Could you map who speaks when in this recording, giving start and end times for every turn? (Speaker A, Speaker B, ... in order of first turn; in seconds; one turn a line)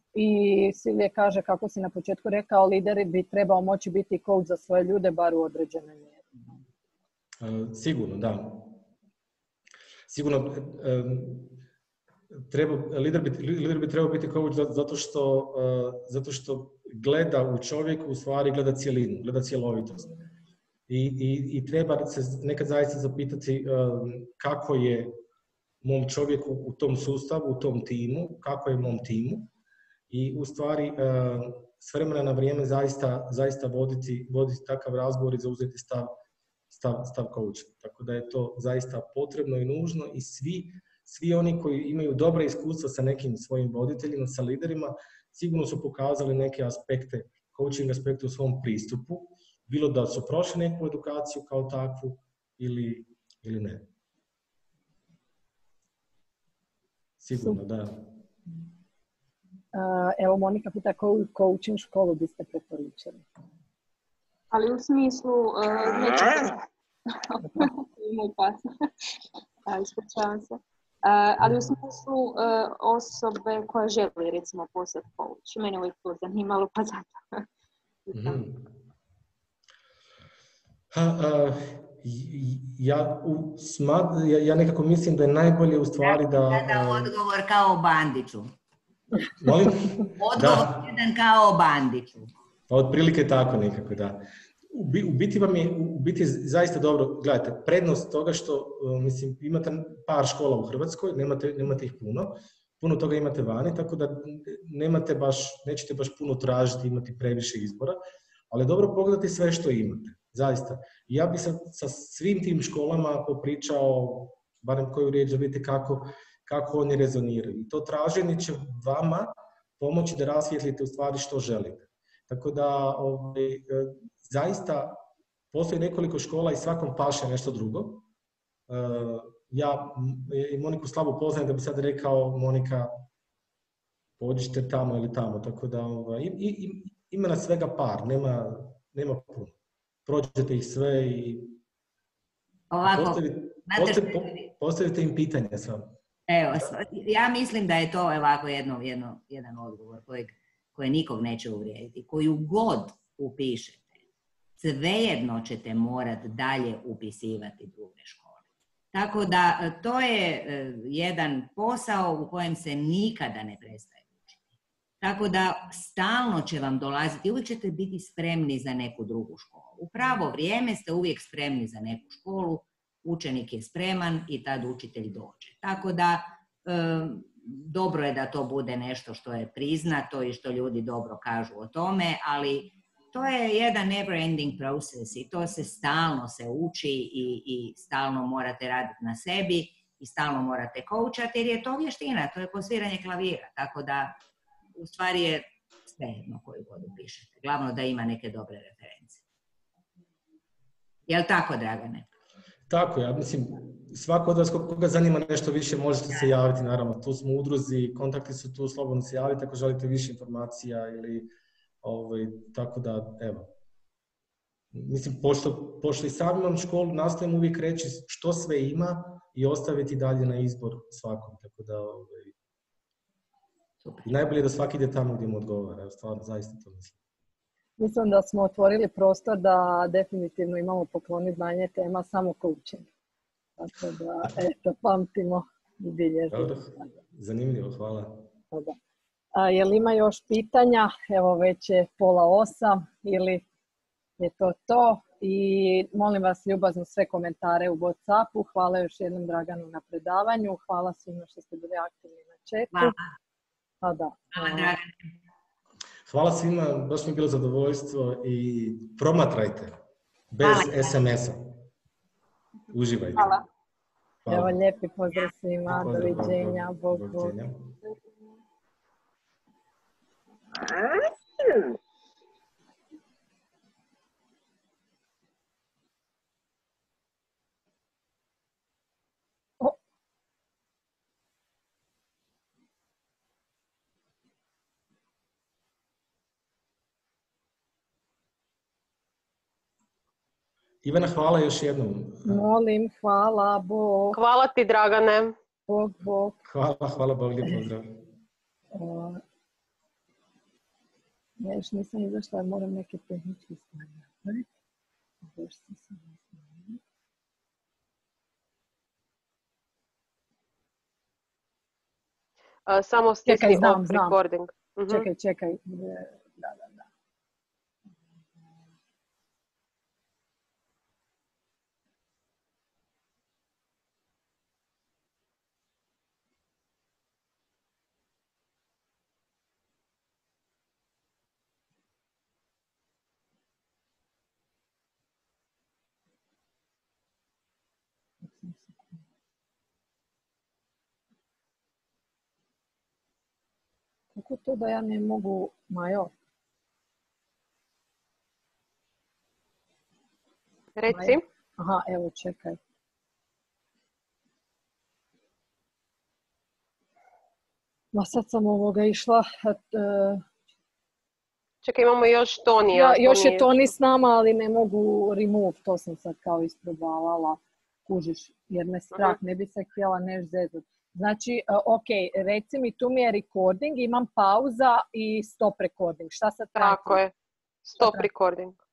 Speaker A: 0.1-6.5
Speaker B: 7.4-8.8
Speaker B: 10.1-11.6
Speaker B: 12.3-20.1
Speaker B: 20.9-25.1
Speaker B: 25.8-29.5
Speaker B: 30.1-36.1
Speaker B: 36.7-53.9
Speaker B: 57.2-58.0
Speaker A: 59.7-63.2
Speaker C: 64.5-69.1
Speaker C: 69.7-77.5
Speaker C: 78.0-78.4
Speaker B: 78.1-78.7
Speaker B: 80.9-87.1
Speaker D: 86.0-88.5
Speaker B: 89.4-90.9
Speaker D: 90.0-92.3
Speaker B: 92.7-108.0
Speaker B: 108.5-125.0
Speaker B: 125.5-128.0
Speaker B: 128.7-132.9
Speaker B: 134.2-139.5
Speaker B: 140.1-141.6
Speaker D: 142.7-144.5
Speaker B: 142.8-145.9
Speaker D: 146.3-153.9
Speaker D: 154.6-158.4
Speaker D: 158.9-164.4
Speaker D: 165.0-194.1
Speaker D: 194.8-199.2
Speaker D: 201.1-202.0
Speaker B: 202.7-211.3
Speaker B: 211.8-213.5
Speaker B: 214.7-222.3
Speaker B: 224.0-227.0
Speaker A: 227.8-232.9
Speaker A: 233.6-236.9
Speaker B: 236.3-238.2
Speaker A: 238.5-238.8
Speaker A: 239.3-243.4
Speaker A: 244.2-252.9
Speaker D: 252.7-253.1
Speaker A: 253.8-254.8
Speaker D: 254.3-254.9
Speaker B: 256.1-259.8
Speaker B: 260.3-261.6
Speaker D: 260.4-260.9
Speaker B: 262.7-263.4
Speaker C: 263.1-263.4
Speaker B: 264.2-264.6
Speaker A: 264.3-267.3
Speaker B: 265.6-267.8
Speaker B: 290.8-292.4
Speaker A: 292.2-294.2
Speaker E: 294.1-295.4
Speaker A: 295.7-296.4
Speaker B: 296.4-297.9
Speaker A: 298.7-299.2
Speaker A: 301.4-304.5
Speaker A: 305.2-306.8
Speaker E: 312.7-315.1
Speaker A: 313.2-314.1
Speaker A: 314.9-316.9
Speaker A: 338.2-339.0
Speaker A: 344.1-346.1
Speaker E: 350.8-351.2
Speaker A: 350.9-352.6
Speaker A: 357.9-360.2
Speaker E: 361.6-363.6
Speaker A: 362.7-377.0
Speaker E: 376.5-377.1
Speaker E: 377.6-378.6
Speaker A: 377.8-378.1